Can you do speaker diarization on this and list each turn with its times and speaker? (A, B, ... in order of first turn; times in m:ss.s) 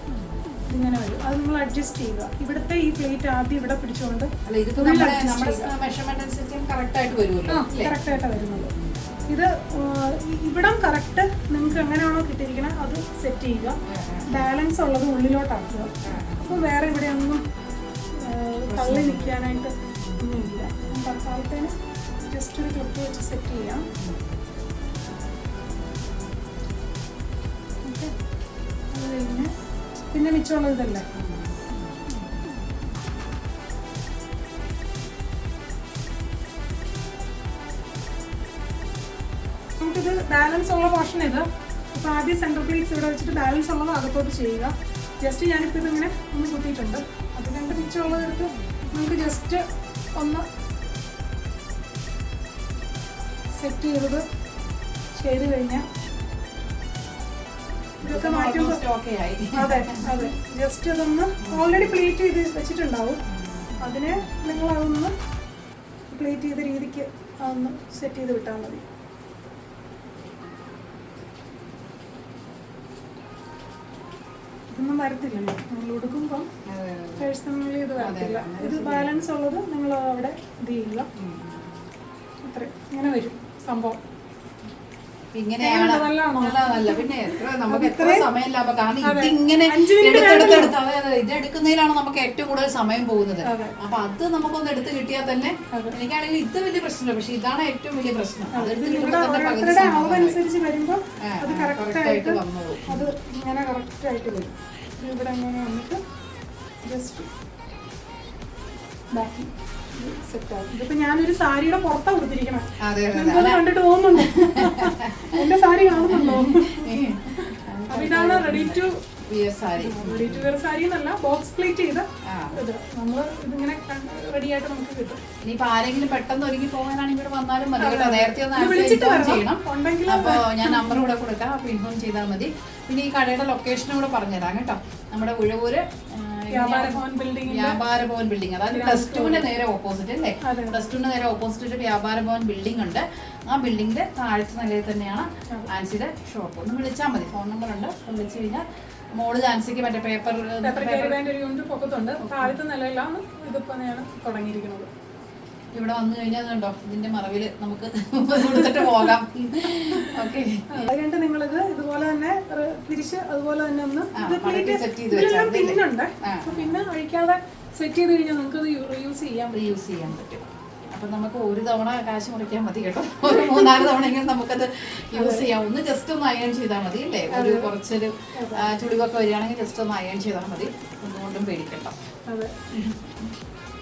0:00.7-0:05.7 A
0:04.4-0:07.9 B
0:07.5-0:08.7 A
0:09.3-0:17.4 A
0:13.9-0:14.4 B
0:16.0-0:16.5 B
0:18.1-0:21.7 A
0:18.7-0:20.2 B
0:22.2-0:23.9 A
0:27.8-0:28.1 A
0:28.9-0:29.5 A
0:30.1-0:31.0 A
0:31.2-0:31.8 B
0:39.8-0:49.6 A
0:50.2-0:50.4 A
0:53.6-0:54.2 A
0:55.2-0:55.8 A
0:58.0-0:58.8 A
0:58.0-1:00.0 B
0:59.5-1:03.2 A
1:01.4-1:01.9 B
1:03.8-1:05.1 A
1:06.1-1:08.8 A
1:14.7-1:16.5 A
1:16.6-1:17.3 B
1:17.2-1:21.1 A
1:18.0-1:19.2 B
1:21.2-1:21.8 B
1:22.4-1:24.0 A
1:25.3-1:40.4 B
1:25.6-1:28.3 A
1:29.0-1:30.8 A
1:33.4-1:33.7 A
1:35.7-1:36.0 A
1:38.5-1:46.0 A
1:41.2-1:43.1 B
1:46.8-1:47.3 A
1:49.1-1:59.0 A
1:52.8-1:53.6 B
1:54.2-1:55.4 B
1:55.9-2:00.5 B
1:59.8-2:05.2 A
2:02.2-2:02.6 B
2:05.4-2:31.2 B
2:07.8-2:11.0 A
2:16.5-2:17.8 A
2:18.7-2:19.5 A
2:20.4-2:20.9 A
2:30.6-2:34.9 A
2:35.7-2:40.9 B
2:38.4-2:39.1 A
2:39.8-2:49.6 A
2:44.2-2:46.8 B
2:49.5-3:01.9 B
2:55.1-2:55.5 A
2:57.3-2:57.7 A
2:58.3-2:58.7 A
3:02.3-3:02.5 A
3:02.7-3:03.3 B